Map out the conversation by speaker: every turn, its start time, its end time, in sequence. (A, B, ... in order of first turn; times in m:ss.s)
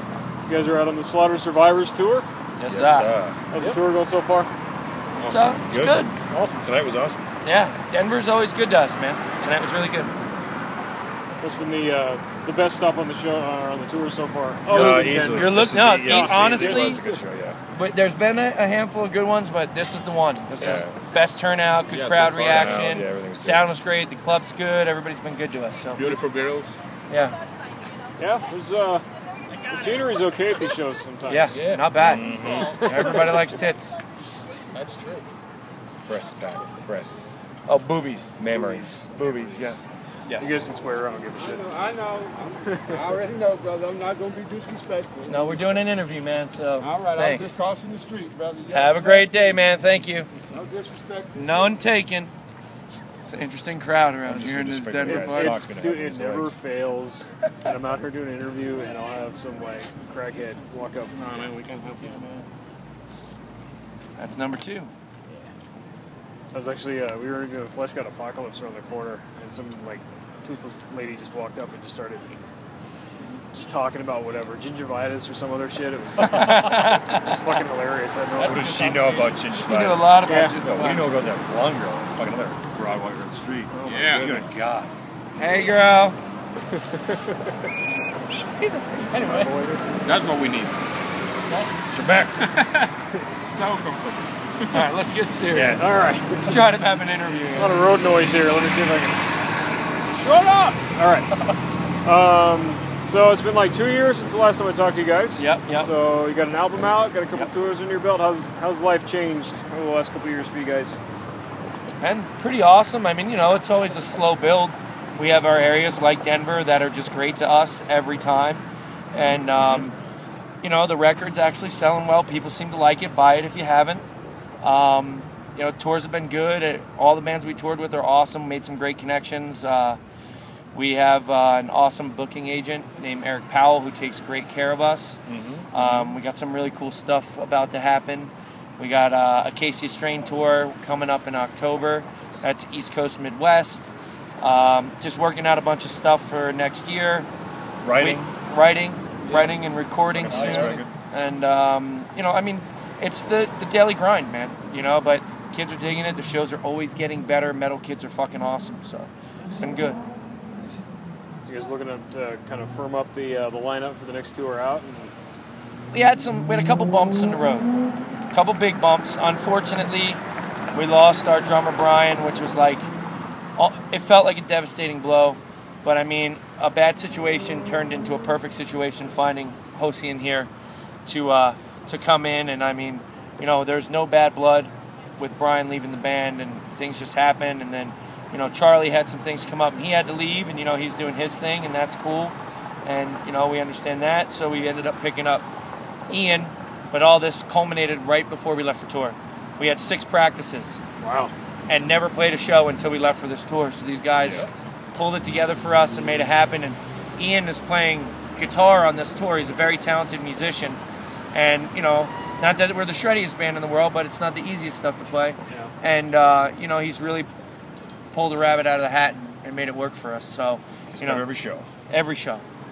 0:00.4-0:02.2 A
0:02.6-0:03.1 B
0:02.6-0:03.4 C
0:03.5-0:04.5 A
0:05.2-0:05.5 D
0:05.2-0:06.2 B
0:05.6-0:07.2 C
0:06.3-0:06.6 D
0:07.4-0:10.1 B
0:11.4-0:17.1 A
0:14.7-0:17.6 C
0:15.3-0:17.0 B
0:17.7-0:26.0 B
0:20.6-0:20.9 C
0:21.9-0:23.0 D
0:22.3-0:23.7 C
0:26.0-0:26.8 D
0:27.1-0:27.4 B
0:28.2-0:29.0 A
0:29.7-0:31.6 A
0:31.3-0:34.0 B
0:31.5-0:32.8 D
0:31.9-0:33.5 C
0:32.6-0:33.4 A
0:34.7-0:35.3 D
0:36.0-0:37.4 C
0:37.7-0:40.6 B
0:38.4-0:39.8 C
0:40.4-0:41.7 A
0:42.6-0:43.1 A
0:43.2-0:45.1 E
0:45.2-0:47.6 B
0:47.7-0:48.3 C
0:48.7-0:50.3 B
0:51.3-0:52.3 B
0:53.2-0:55.6 B
0:54.2-0:56.5 C
0:55.0-1:01.2 A
1:01.1-1:02.4 D
1:04.2-1:04.9 B
1:06.5-1:12.4 A
1:13.5-1:18.9 A
1:16.2-1:17.4 B
1:18.4-1:19.3 E
1:18.4-1:24.9 C
1:18.9-1:19.4 D
1:19.5-1:21.2 B
1:20.2-1:20.6 A
1:23.7-1:24.6 A
1:23.8-1:24.4 D
1:25.4-1:26.2 B
1:26.8-1:27.5 A
1:28.6-1:29.0 B
1:29.1-1:29.8 A
1:29.1-1:29.6 E
1:30.0-1:30.8 D
1:31.9-1:32.5 C
1:32.4-1:34.9 D
1:34.7-1:37.8 B
1:35.5-1:36.1 C
1:35.8-1:36.6 A
1:37.5-1:39.2 A
1:40.6-1:41.4 A
1:42.0-1:51.0 A
1:45.4-1:45.9 B
1:52.0-1:58.6 B
1:59.1-2:00.0 B
2:00.6-2:04.0 B
2:04.6-2:10.0 B
2:10.7-2:15.2 B
2:15.3-2:16.2 C
2:15.7-2:27.3 B
2:27.8-2:28.3 C
2:27.9-2:40.0 B
2:30.1-2:30.9 C
2:30.3-2:30.7 E
2:41.4-2:45.1 A
2:45.9-2:47.7 B
2:48.3-2:50.2 B
2:50.7-2:52.9 B
2:53.6-3:00.5 B
3:01.0-3:15.4 B
3:16.1-3:20.8 B
3:21.0-3:21.3 A
3:21.7-3:30.8 B
3:24.2-3:24.5 C
3:31.3-3:37.3 B
3:35.5-3:35.7 A
3:38.1-3:41.2 B
3:40.9-3:41.7 C
3:41.9-3:42.4 B